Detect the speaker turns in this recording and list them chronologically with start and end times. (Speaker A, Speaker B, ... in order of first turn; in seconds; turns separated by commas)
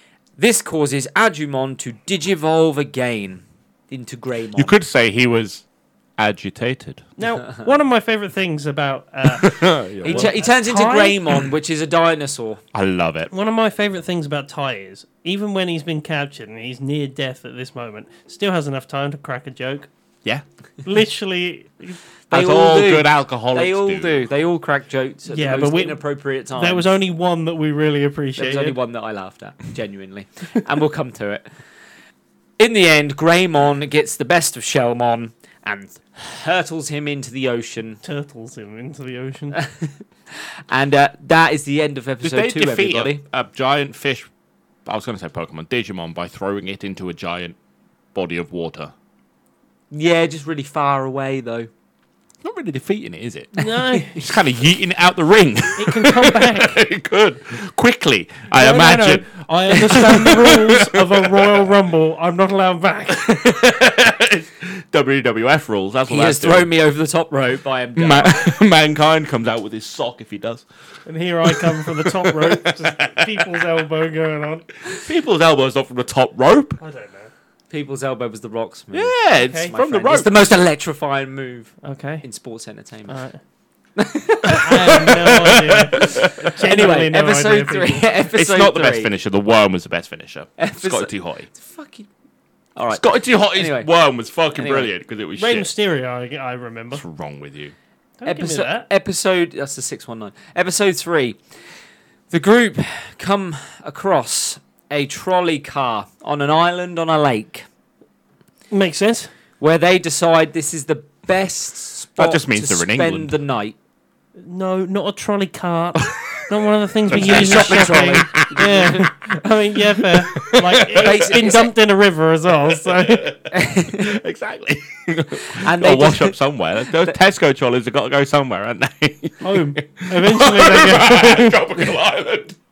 Speaker A: 0.4-4.8, Speaker B: 4.5-5.6, Speaker B: 6.2-7.0, Speaker C: 7.2-11.4, Speaker B: 9.2-10.3, Speaker A: 10.0-12.6, Speaker B: 12.7-13.3, Speaker C: 13.3-19.9, Speaker C: 20.8-22.0, Speaker A: 22.3-26.9, Speaker B: 22.3-24.2, Speaker C: 25.3-28.8, Speaker A: 28.4-31.5, Speaker A: 32.6-38.0, Speaker C: 38.0-39.6, Speaker A: 39.5-43.2, Speaker B: 42.2-44.3, Speaker B: 44.9-47.5, Speaker B: 48.1-48.9, Speaker A: 49.9-51.7, Speaker B: 52.4-61.7, Speaker C: 53.5-54.2, Speaker C: 55.8-56.8, Speaker C: 58.5-63.3, Speaker B: 63.1-66.7, Speaker A: 66.1-68.6, Speaker B: 68.0-70.7, Speaker C: 71.0-74.8, Speaker B: 71.4-73.6, Speaker B: 74.9-76.8, Speaker C: 76.8-77.3, Speaker A: 77.7-83.2, Speaker B: 78.9-80.5, Speaker C: 79.3-79.7, Speaker C: 81.8-82.2, Speaker C: 83.1-83.4, Speaker A: 84.0-85.1, Speaker C: 84.5-88.1, Speaker B: 84.7-86.5, Speaker A: 86.0-89.1, Speaker B: 88.3-91.5, Speaker A: 90.6-92.1, Speaker A: 92.8-93.9, Speaker B: 92.9-95.7, Speaker A: 94.5-94.9, Speaker C: 95.3-97.0, Speaker B: 96.9-97.7, Speaker C: 98.2-98.9, Speaker A: 98.2-101.4, Speaker A: 102.3-107.7, Speaker C: 108.7-109.3, Speaker A: 109.6-113.8, Speaker B: 112.2-113.3, Speaker C: 114.4-123.3, Speaker B: 117.1-118.7, Speaker A: 117.1-119.1, Speaker B: 120.0-121.4, Speaker A: 121.0-121.7, Speaker B: 122.9-132.6, Speaker A: 123.5-124.2, Speaker A: 125.5-126.4, Speaker C: 129.4-131.7